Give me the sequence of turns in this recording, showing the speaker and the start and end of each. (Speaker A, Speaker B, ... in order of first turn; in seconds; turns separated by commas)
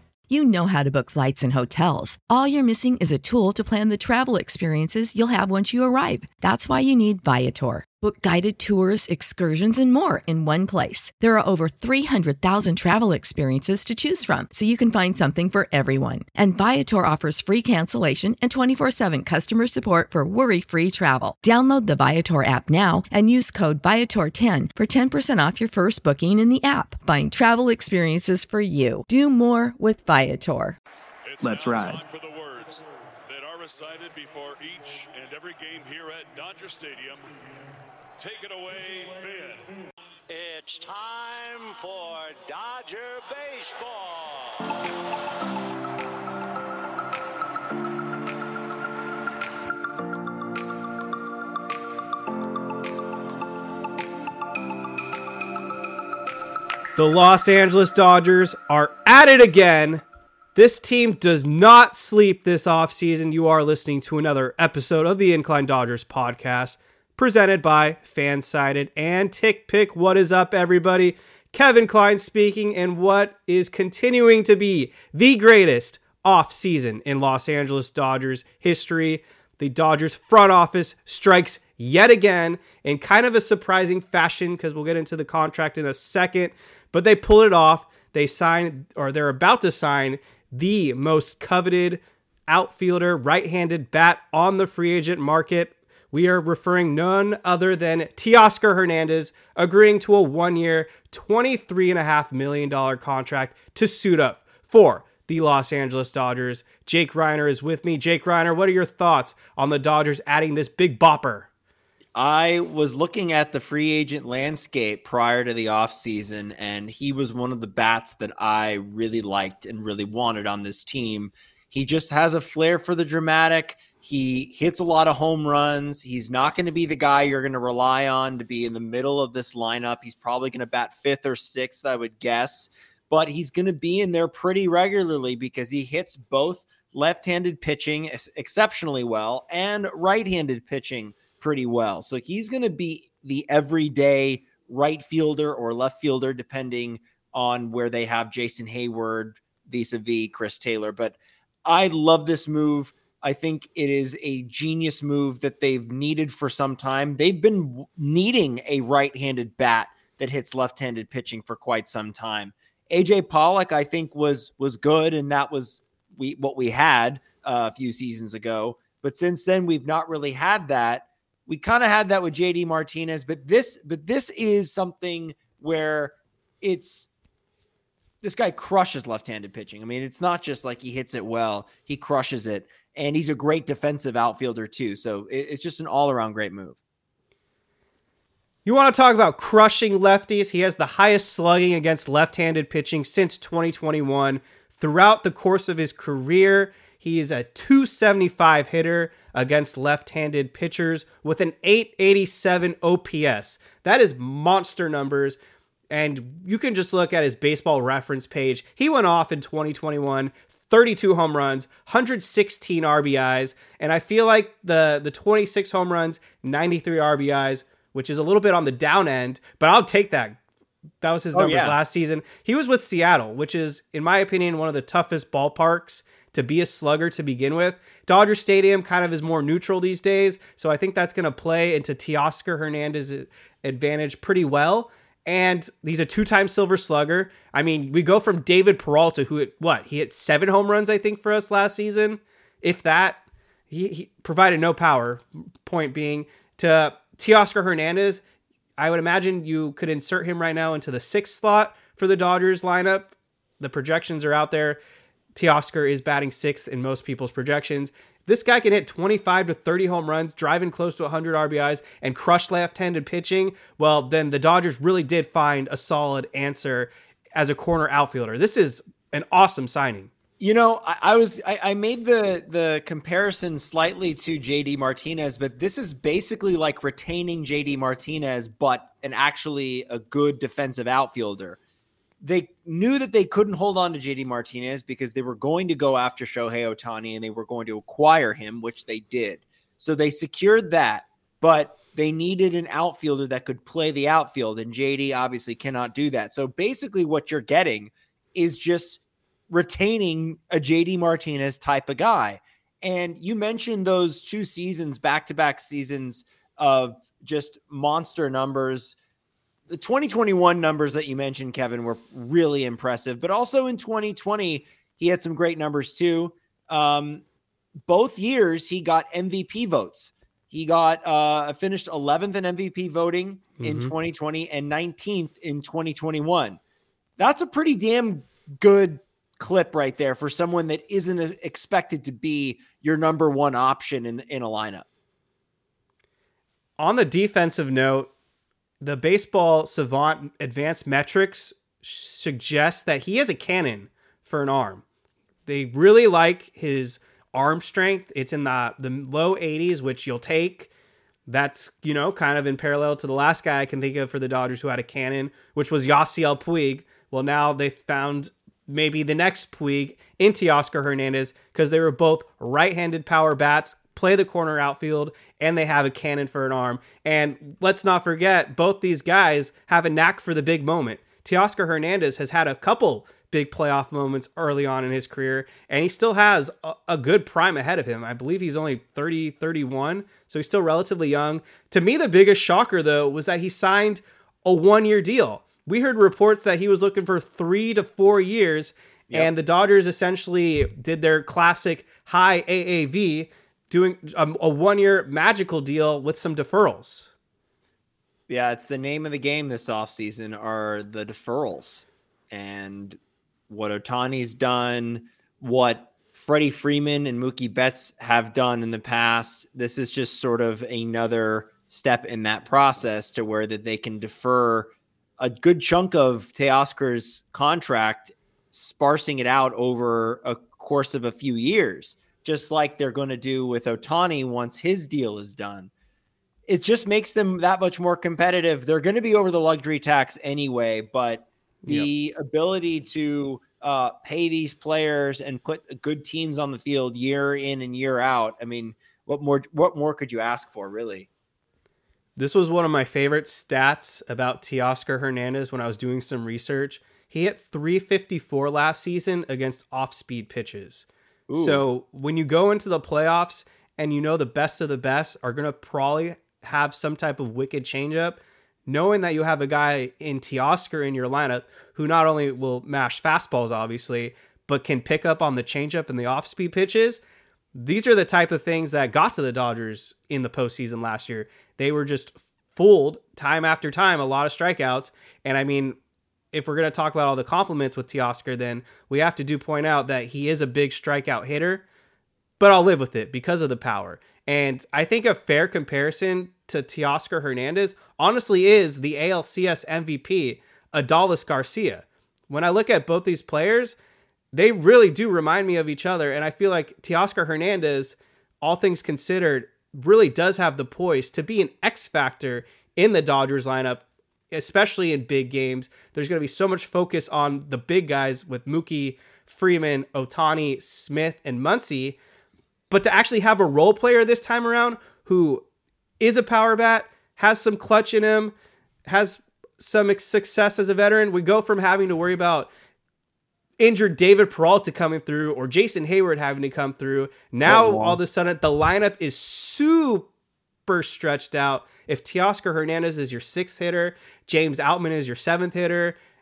Speaker A: 0.3-30.8, Speaker B: 31.2-37.2, Speaker C: 31.4-32.0, Speaker B: 38.2-39.7, Speaker D: 40.3-44.7, Speaker C: 57.0-60.0, Speaker C: 60.5-111.5, Speaker E: 112.1-177.1, Speaker E: 178.2-186.8, Speaker C: 188.6-205.4, Speaker C: 205.9-220.4, Speaker C: 221.0-248.2, Speaker E: 221.3-221.8, Speaker C: 248.8-254.8, Speaker C: 255.3-270.1, Speaker E: 270.4-281.6, Speaker E: 282.2-308.9, Speaker E: 309.7-317.2, Speaker E: 317.9-326.6, Speaker C: 323.6-323.9, Speaker E: 327.2-334.9, Speaker C: 336.8-338.1, Speaker C: 338.8-344.8, Speaker C: 345.4-350.7, Speaker C: 351.3-397.1, Speaker E: 398.3-425.7, Speaker E: 426.5-441.1, Speaker C: 431.6-431.9, Speaker C: 442.2-467.0, Speaker E: 451.3-451.6, Speaker C: 467.5-475.8, Speaker C: 476.3-481.6, Speaker C: 482.4-493.8, Speaker C: 494.3-512.0, Speaker C: 512.7-515.4, Speaker C: 516.0-518.3, Speaker C: 518.9-522.5, Speaker C: 523.6-530.1, Speaker E: 527.4-528.0, Speaker C: 530.6-536.0